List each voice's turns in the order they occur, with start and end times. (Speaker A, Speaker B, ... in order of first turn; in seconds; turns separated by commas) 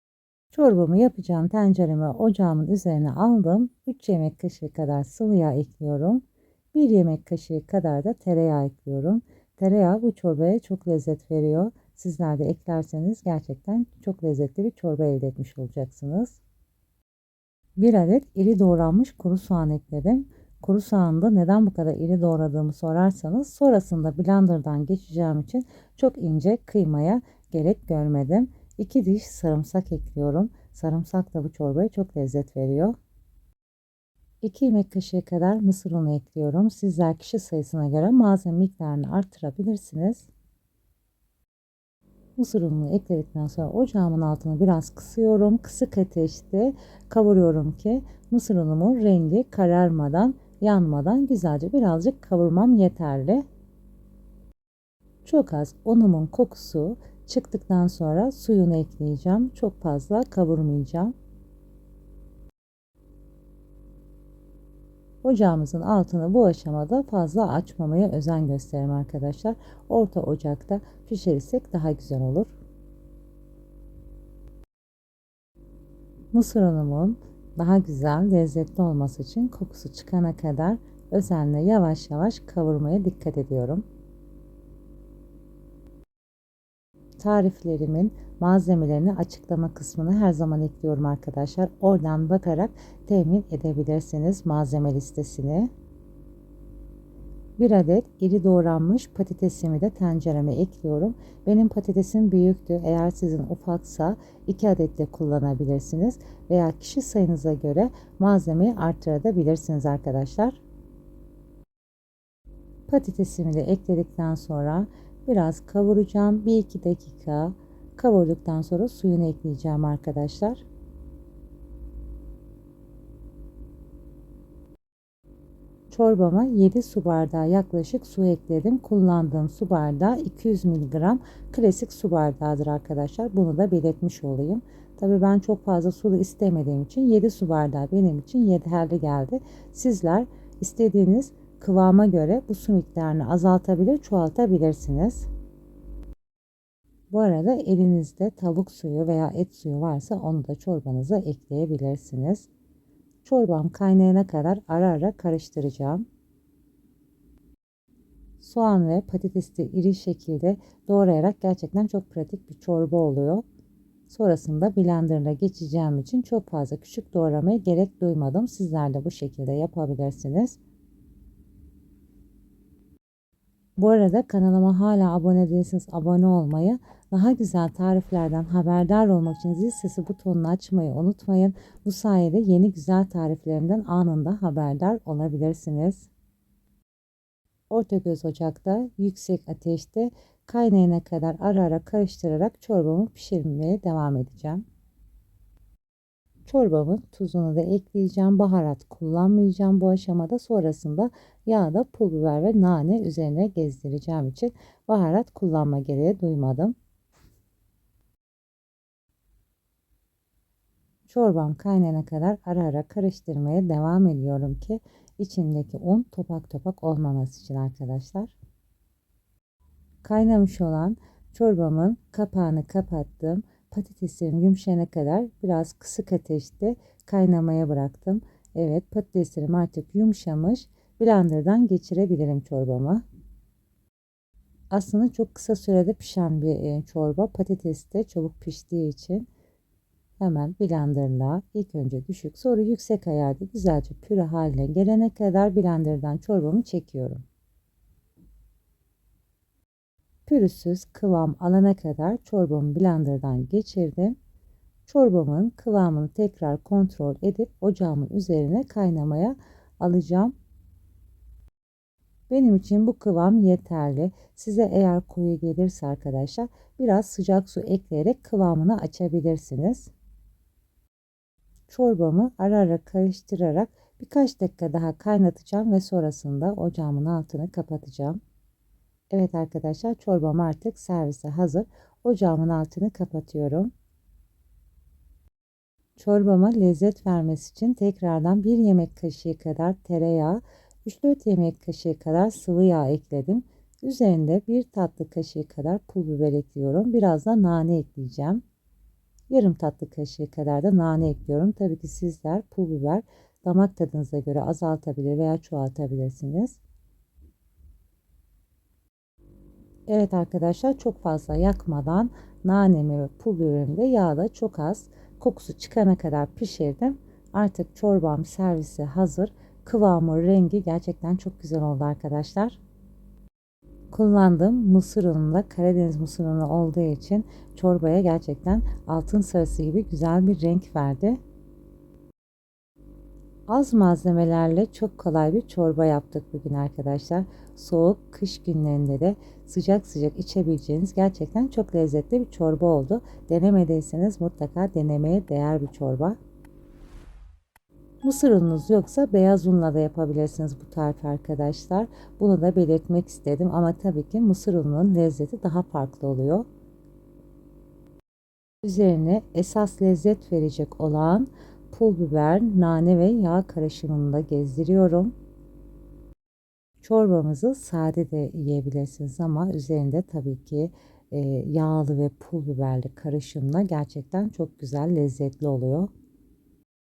Speaker A: 0.5-16.4, Speaker A: 17.8-33.0, Speaker A: 34.4-40.3, Speaker A: 42.4-53.5, Speaker A: 55.2-61.1, Speaker A: 65.2-72.5, Speaker A: 76.3-83.8, Speaker A: 87.2-95.7, Speaker A: 97.6-110.6, Speaker A: 112.9-120.6, Speaker A: 125.9-145.3, Speaker A: 147.1-152.5, Speaker A: 153.2-156.1, Speaker A: 158.4-163.4, Speaker A: 164.1-170.6, Speaker A: 173.8-186.1, Speaker A: 187.7-194.6, Speaker A: 196.5-206.8, Speaker A: 211.1-218.4, Speaker A: 220.0-233.0, Speaker A: 234.7-239.3, Speaker A: 240.2-247.2, Speaker A: 250.3-254.2, Speaker A: 254.9-260.3, Speaker A: 262.3-269.9, Speaker A: 271.7-278.2, Speaker A: 279.1-283.7, Speaker A: 286.0-298.4, Speaker A: 299.3-306.6, Speaker A: 309.9-322.6, Speaker A: 323.9-331.2, Speaker A: 333.5-346.2, Speaker A: 348.0-356.5, Speaker A: 358.6-365.1, Speaker A: 366.8-375.9